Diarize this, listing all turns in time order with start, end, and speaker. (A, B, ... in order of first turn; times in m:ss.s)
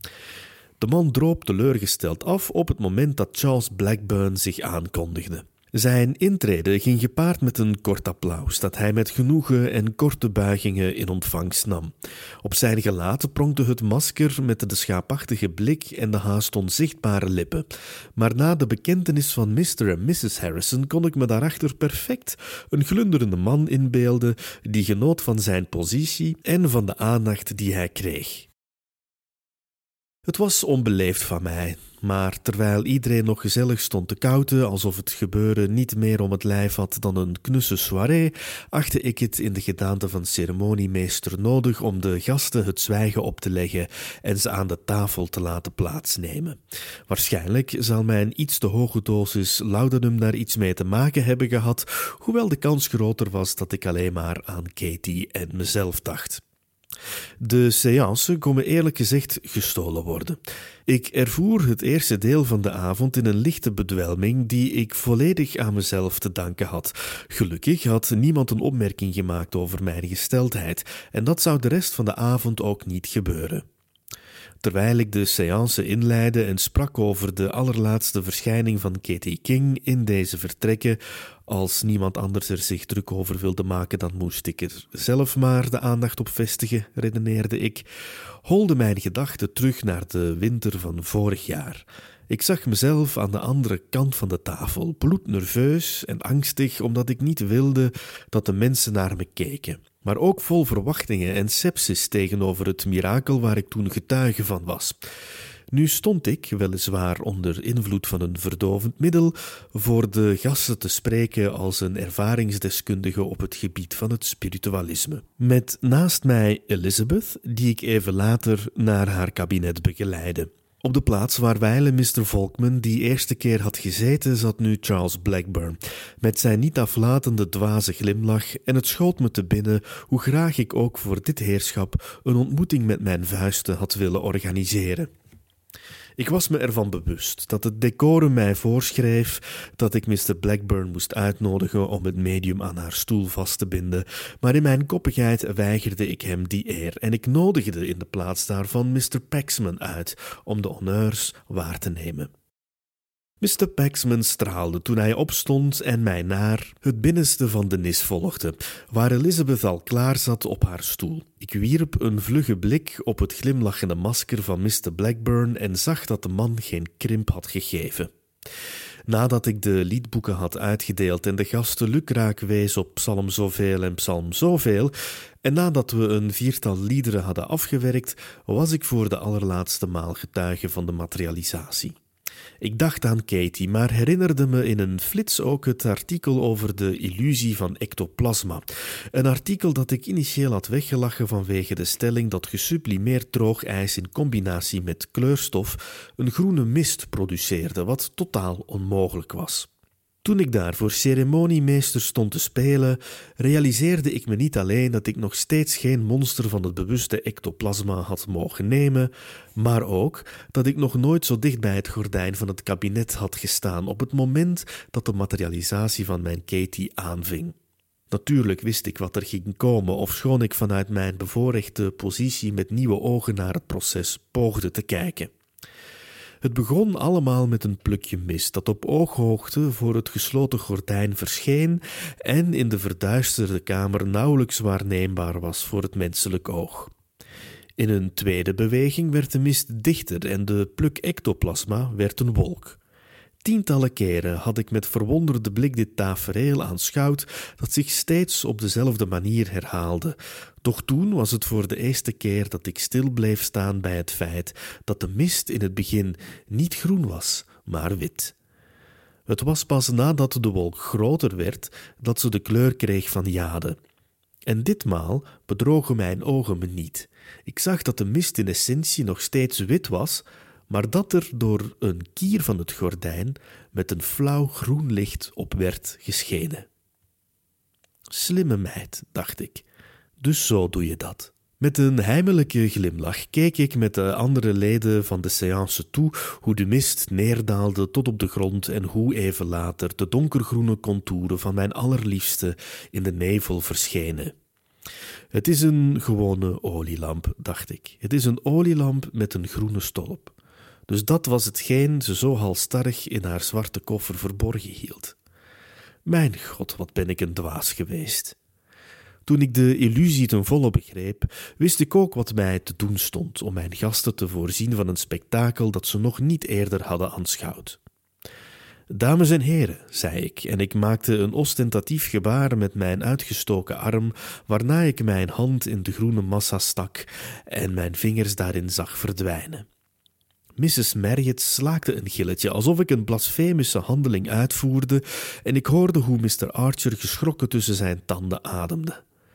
0:00.8-0:28.5 A
0:30.3-0:56.4 A
0:57.4-1:13.6 A
1:14.6-1:27.9 A
1:28.4-1:45.0 A
1:45.7-2:15.1 A
2:16.2-2:32.3 A
2:33.4-2:48.1 A
2:49.1-2:54.9 A
2:55.4-3:02.0 A
3:02.6-3:19.7 A
3:20.2-3:37.6 A
3:38.1-3:45.3 A
3:46.4-3:56.9 A
3:57.8-4:02.8 A
4:03.4-4:18.4 A
4:19.3-4:23.8 A
4:24.5-4:36.7 A
4:38.1-4:39.6 A
4:40.2-4:54.3 A
4:55.3-5:00.3 A
5:00.9-5:05.2 A
5:06.1-5:08.4 A
5:09.3-5:17.8 A
5:18.9-5:29.7 A
5:30.6-5:39.0 A